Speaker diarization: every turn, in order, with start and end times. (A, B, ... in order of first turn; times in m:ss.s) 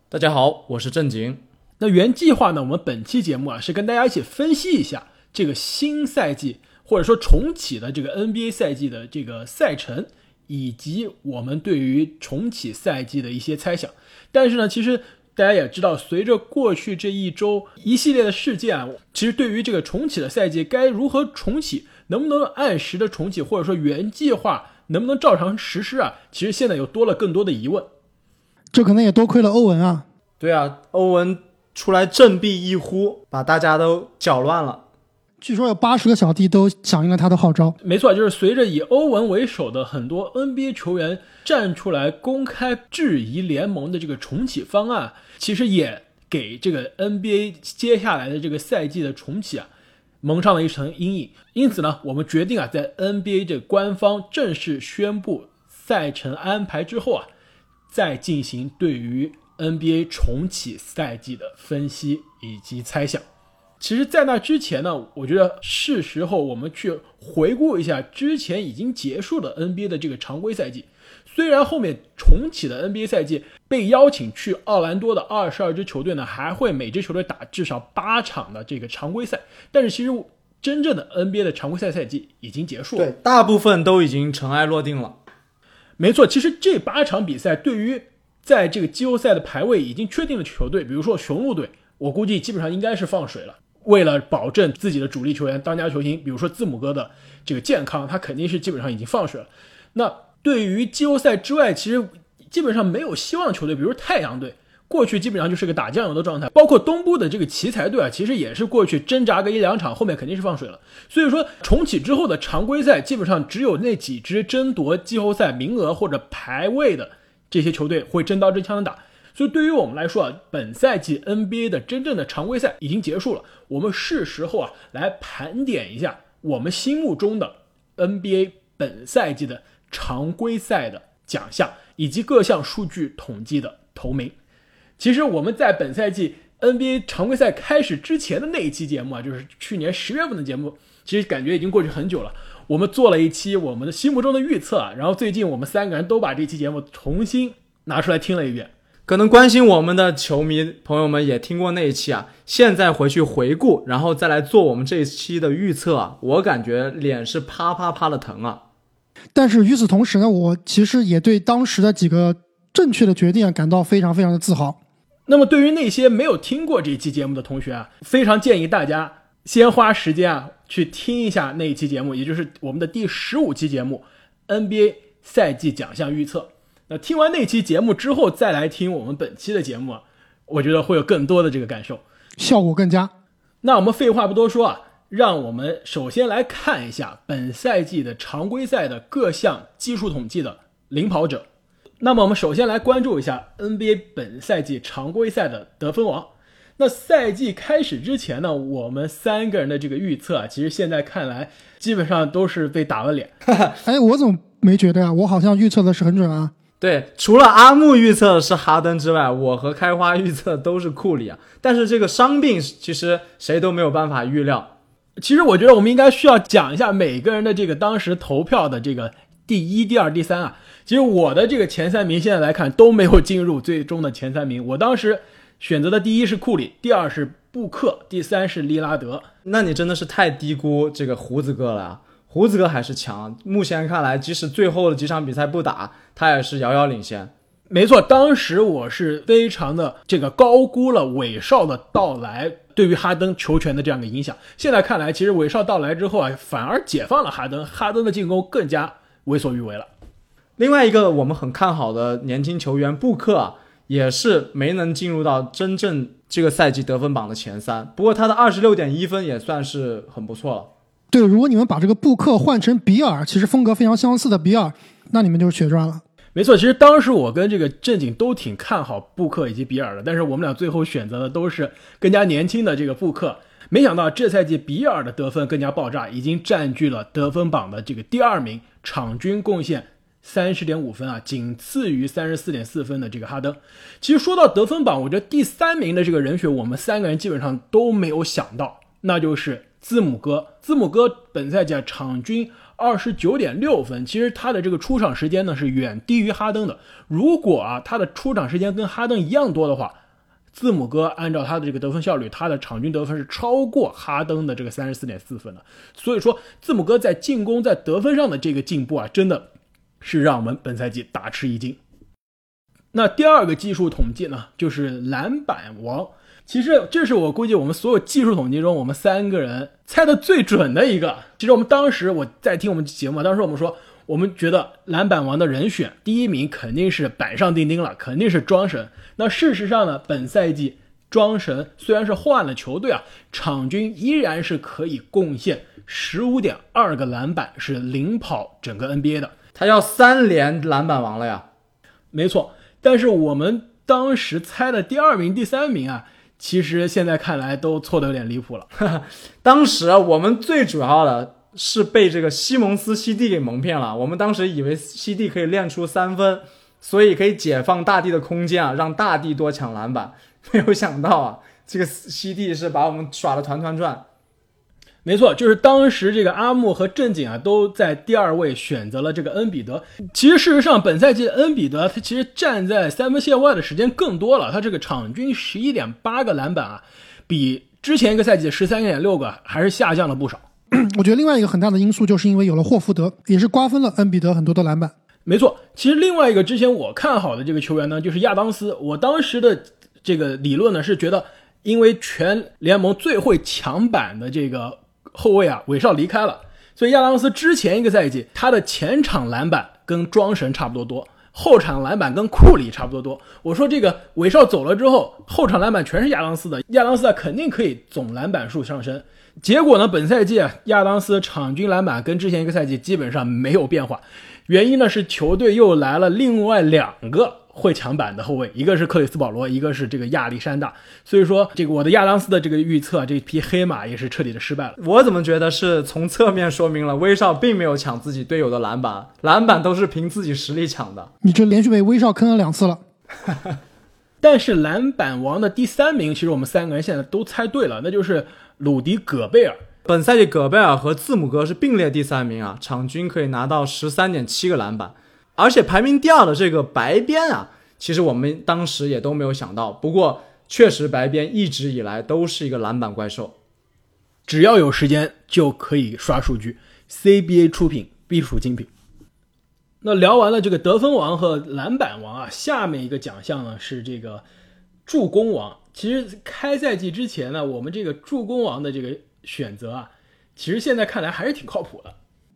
0:00.1-0:01.4 A
0:01.8-0:27.9 B
0:28.7-0:30.0 C
0:30.4-0:34.8 A
0:35.4-0:37.8 C
0:37.8-0:49.7 B
0:50.2-0:57.3 B
0:57.9-1:03.2 B
1:03.8-1:23.1 B
1:23.0-1:25.2 A
1:26.0-2:14.3 B
2:15.0-2:28.7 B
2:29.1-2:38.6 A
2:39.3-2:44.8 C
2:45.3-3:02.0 B
3:02.4-3:03.1 C
3:03.6-3:11.5 B
3:12.0-3:23.3 B
3:23.5-3:23.8 A
3:23.8-3:26.5 C
3:26.8-3:34.7 A
3:35.2-3:49.3 B
3:49.5-3:57.3 A
3:57.7-4:09.9 B
4:10.6-4:20.7 A
4:21.1-4:26.0 C
4:26.4-5:00.0 B
5:00.5-5:09.5 B
5:10.0-5:11.8 B
5:12.9-5:39.3 B
5:39.6-5:41.4 A
5:42.1-5:48.7 B
5:48.8-6:04.0 A
6:05.0-6:20.4 B
6:20.7-6:24.9 C
6:25.2-7:04.8 B
7:04.8-7:11.1 A
7:11.2-7:12.8 C
7:14.2-7:19.6 B
7:19.9-7:33.4 A
7:34.3-7:38.7 B
7:39.8-7:44.2 B
7:44.9-7:51.9 B